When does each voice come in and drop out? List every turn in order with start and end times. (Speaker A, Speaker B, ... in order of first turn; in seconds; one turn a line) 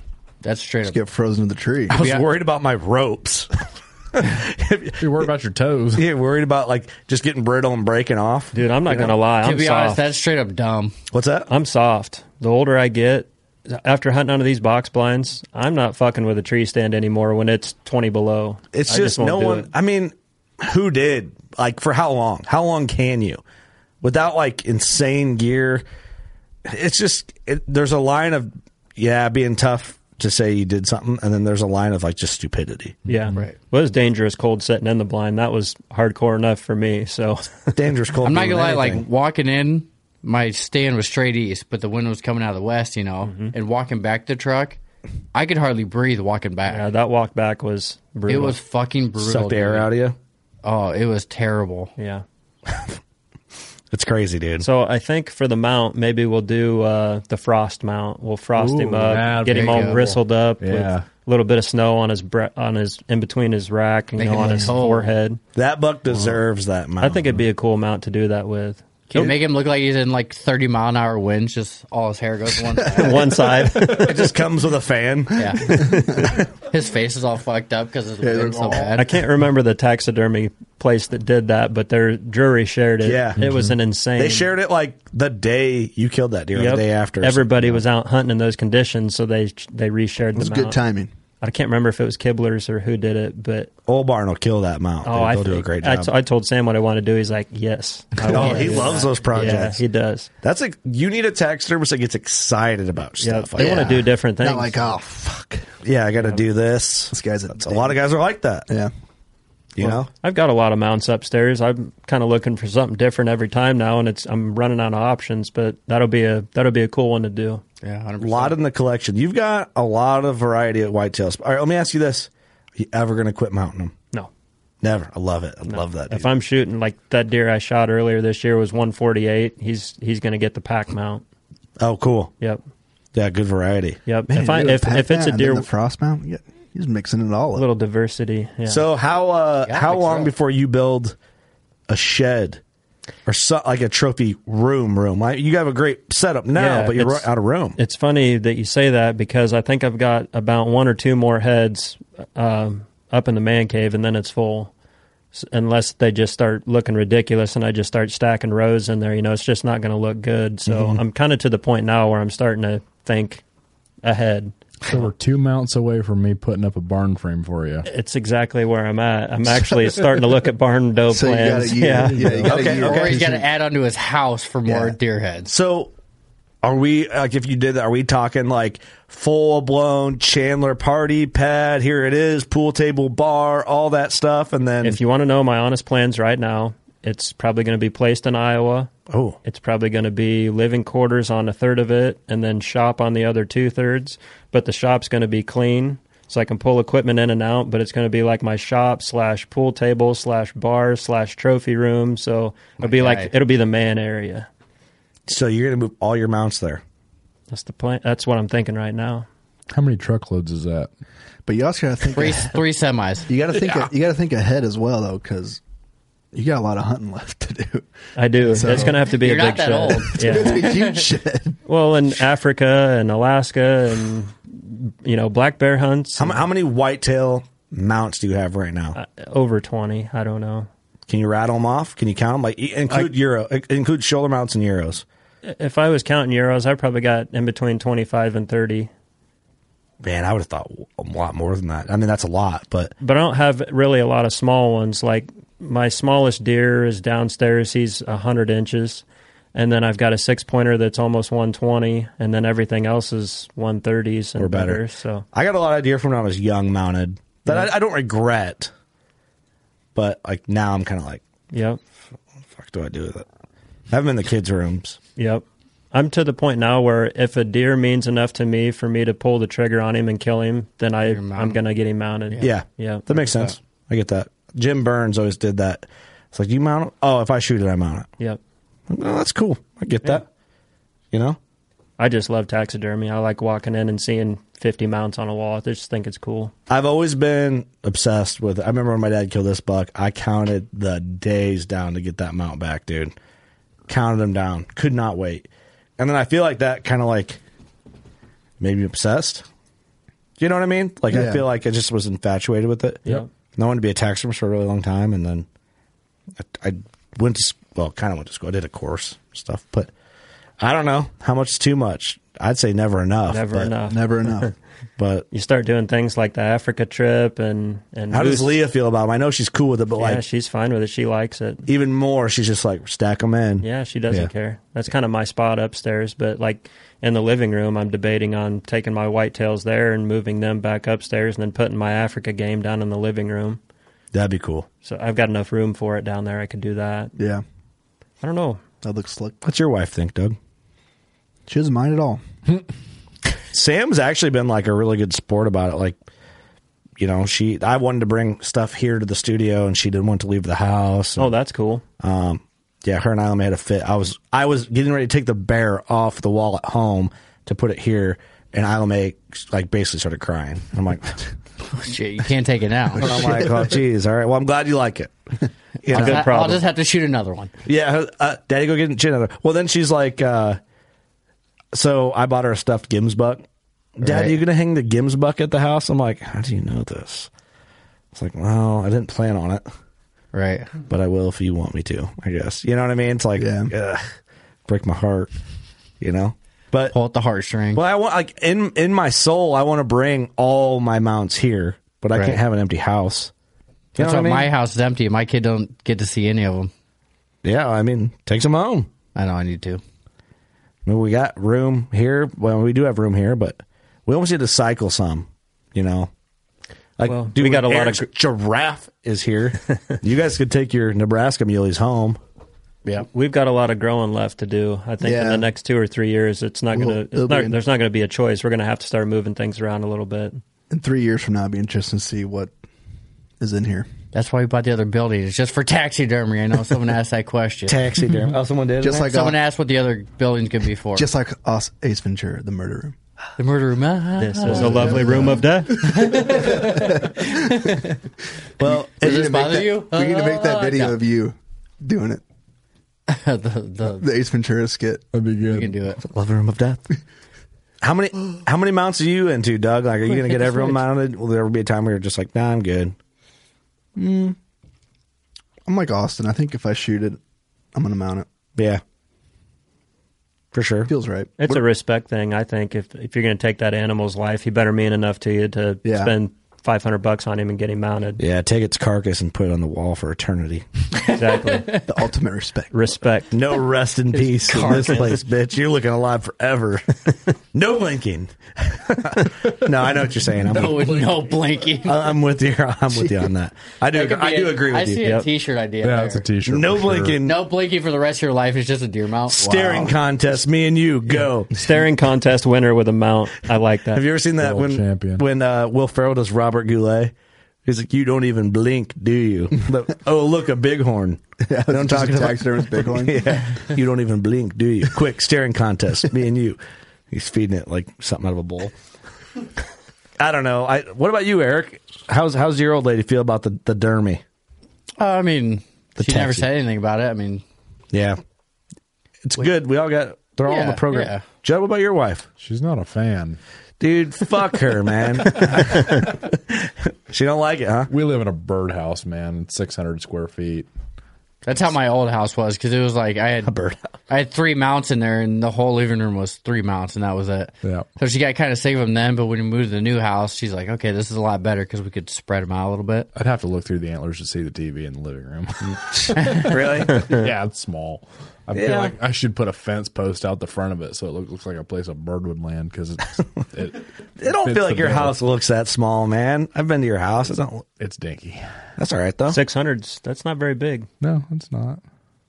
Speaker A: 0.4-1.0
Speaker B: 0.8-2.0
Speaker C: 1.9-3.5
Speaker A: 1.9-2.3
Speaker C: 4.2-5.3
Speaker D: 5.0-6.1
Speaker C: 6.0-9.1
Speaker E: 8.5-10.1
Speaker A: 9.4-11.0
Speaker C: 11.1-11.5
Speaker E: 11.5-19.7
Speaker C: 18.7-23.4
Speaker C: 24.0-25.8
Speaker C: 26.7-33.0
Speaker D: 33.1-33.4
Speaker E: 33.1-37.7
Speaker C: 37.8-39.0
Speaker A: 38.2-44.8
Speaker E: 43.2-43.5
Speaker A: 45.3-46.9
Speaker E: 46.7-48.6
Speaker A: 48.3-49.9
Speaker C: 49.2-50.2
Speaker A: 50.6-51.9
Speaker E: 52.0-52.2
Speaker C: 53.9-54.7
Speaker E: 54.6-65.4
Speaker D: 58.6-61.1
Speaker A: 59.5-60.1
Speaker A: 64.2-65.2
Speaker C: 65.5-67.2
Speaker E: 67.0-69.3
Speaker A: 69.1-73.4
Speaker E: 72.9-74.2
Speaker C: 73.8-76.5
Speaker A: 75.4-79.1
Speaker B: 75.7-76.3
Speaker B: 78.2-79.0
Speaker E: 79.0-84.5
Speaker C: 83.0-83.4
Speaker D: 83.4-83.8
Speaker C: 84.2-87.8
Speaker E: 86.5-90.8
Speaker B: 90.3-91.1
Speaker E: 91.4-93.7
Speaker C: 93.9-96.1
Speaker E: 95.0-100.3
Speaker C: 98.3-99.8
Speaker A: 98.3-99.5
Speaker C: 100.4-104.0
Speaker E: 103.2-104.9
Speaker B: 103.6-105.7
Speaker C: 105.8-108.7
Speaker B: 107.1-108.0
Speaker C: 109.8-110.1
Speaker E: 110.2-117.6
Speaker A: 117.8-118.6
Speaker C: 118.2-123.9
Speaker C: 124.8-126.3
Speaker E: 125.7-131.2
Speaker C: 131.8-132.3
Speaker C: 133.1-134.0
Speaker E: 134.1-135.7
Speaker B: 134.3-137.7
Speaker E: 137.6-138.8
Speaker C: 138.7-141.2
Speaker A: 139.7-140.3
Speaker C: 141.9-142.6
Speaker C: 143.3-147.8
Speaker E: 146.6-154.7
Speaker E: 155.3-163.4
Speaker C: 160.7-161.0
Speaker E: 164.0-164.5
Speaker D: 164.9-167.9
Speaker E: 167.8-172.4
Speaker B: 171.1-173.5
Speaker D: 172.1-172.6
Speaker C: 172.4-173.2
Speaker A: 172.6-175.5
Speaker B: 174.7-175.0
Speaker C: 175.5-175.9
Speaker C: 176.6-185.0
Speaker E: 184.8-188.9
Speaker C: 189.1-189.4
Speaker E: 189.4-204.5
Speaker A: 202.8-203.3
Speaker C: 205.3-206.8
Speaker E: 207.5-209.3
Speaker D: 209.7-210.9
Speaker B: 211.5-212.6
Speaker A: 212.1-213.3
Speaker B: 213.3-215.6
Speaker B: 216.3-217.9
Speaker E: 218.2-220.7
Speaker B: 218.4-219.1
Speaker A: 218.6-221.1
Speaker B: 220.1-221.6
Speaker E: 221.7-226.5
Speaker C: 226.2-229.0
Speaker E: 228.9-230.7
Speaker C: 231.1-235.1
Speaker E: 235.4-238.9
Speaker C: 240.0-242.9
Speaker E: 243.0-255.2
Speaker C: 254.4-254.8
Speaker C: 255.3-258.7
Speaker C: 259.9-261.2
Speaker E: 261.5-261.8
Speaker C: 262.6-263.3
Speaker C: 263.9-265.0
Speaker E: 265.2-273.1
Speaker A: 271.1-271.6
Speaker C: 272.4-278.1
Speaker A: 273.1-273.5
Speaker C: 278.9-280.2
Speaker C: 281.1-281.4
Speaker E: 282.0-286.5
Speaker C: 286.7-293.1
Speaker C: 293.9-295.5
Speaker C: 296.0-297.4
Speaker C: 298.6-299.4
Speaker C: 300.4-305.5
Speaker B: 301.1-301.4
Speaker C: 306.4-309.9
Speaker C: 310.6-313.7
Speaker E: 313.3-314.5
Speaker B: 313.9-314.5
Speaker C: 315.0-315.3
Speaker E: 315.3-318.6
Speaker C: 318.1-320.2
Speaker E: 320.0-321.7
Speaker C: 321.7-324.3
Speaker E: 323.6-333.6
Speaker C: 334.1-334.7
Speaker E: 334.8-337.1
Speaker B: 337.2-337.4
Speaker E: 338.2-338.6
Speaker B: 338.8-339.4
Speaker C: 339.4-340.4
Speaker B: 341.5-342.2
Speaker C: 343.5-346.0
Speaker C: 347.0-351.3
Speaker E: 351.2-351.8
Speaker C: 352.0-361.2
Speaker A: 361.8-363.4
Speaker C: 363.0-365.1
Speaker B: 363.0-363.5
Speaker C: 365.8-366.6
Speaker A: 365.9-367.5
Speaker E: 365.9-366.6
Speaker C: 367.7-370.6
Speaker C: 371.7-373.4
Speaker C: 374.0-377.3
Speaker A: 374.0-374.4
Speaker C: 378.1-379.6
Speaker A: 380.3-380.7
Speaker C: 380.9-384.1
Speaker B: 383.4-383.7
Speaker C: 384.7-385.3
Speaker C: 386.0-386.9
Speaker A: 386.9-387.8
Speaker C: 387.8-393.3
Speaker A: 392.1-392.4
Speaker C: 394.0-394.5
Speaker A: 394.0-396.7
Speaker C: 397.4-398.9
Speaker A: 399.1-399.8
Speaker C: 400.9-406.1
Speaker C: 407.0-412.2
Speaker E: 407.1-408.1
Speaker E: 413.1-420.4
Speaker B: 415.0-415.5
Speaker B: 416.7-417.6
Speaker B: 420.7-422.5
Speaker B: 423.4-423.9
Speaker A: 424.1-427.8
Speaker C: 427.7-429.1
Speaker B: 428.8-429.4
Speaker A: 429.0-431.1
Speaker B: 430.9-433.0
Speaker A: 433.4-438.0
Speaker E: 434.2-435.8
Speaker B: 434.5-435.3
Speaker B: 436.1-437.4
Speaker C: 438.6-439.6
Speaker B: 438.6-442.2
Speaker A: 439.0-441.0
Speaker A: 443.1-444.1
Speaker B: 443.9-445.1
Speaker D: 445.1-445.8
Speaker A: 445.5-446.0
Speaker C: 446.0-446.8
Speaker C: 447.8-452.9
Speaker A: 450.1-450.8
Speaker C: 454.0-454.4
Speaker B: 455.7-457.2
Speaker B: 457.7-458.3
Speaker C: 460.5-460.9
Speaker B: 460.9-461.6
Speaker E: 461.4-468.2
Speaker B: 465.8-466.1
Speaker C: 468.2-470.6
Speaker A: 471.0-471.8
Speaker E: 471.2-471.7
Speaker B: 471.9-472.7
Speaker E: 472.7-473.3
Speaker C: 473.3-477.0
Speaker A: 474.1-475.2
Speaker C: 477.5-481.0
Speaker A: 480.5-482.1
Speaker D: 480.6-481.1
Speaker C: 481.8-485.1
Speaker A: 483.9-486.3
Speaker D: 485.8-487.2
Speaker C: 486.5-487.4
Speaker A: 487.2-489.9
Speaker C: 489.3-491.5
Speaker E: 491.5-494.0
Speaker C: 493.9-497.1
Speaker D: 494.4-495.2
Speaker C: 497.7-506.6
Speaker B: 501.5-503.5
Speaker C: 507.1-508.7
Speaker C: 510.2-514.2
Speaker A: 515.0-517.4
Speaker C: 516.0-516.5
Speaker C: 517.9-518.2
Speaker C: 519.2-522.3
Speaker A: 520.5-521.2
Speaker D: 522.4-523.4
Speaker C: 523.8-527.9
Speaker D: 525.4-525.8
Speaker D: 527.9-530.7
Speaker A: 531.5-533.5
Speaker C: 533.5-533.8
Speaker A: 534.1-543.1
Speaker D: 543.1-555.2
Speaker C: 546.5-547.1
Speaker C: 548.5-549.0
Speaker C: 554.2-557.7
Speaker D: 557.8-558.5
Speaker C: 558.8-559.4
Speaker E: 559.3-560.9
Speaker D: 561.0-561.8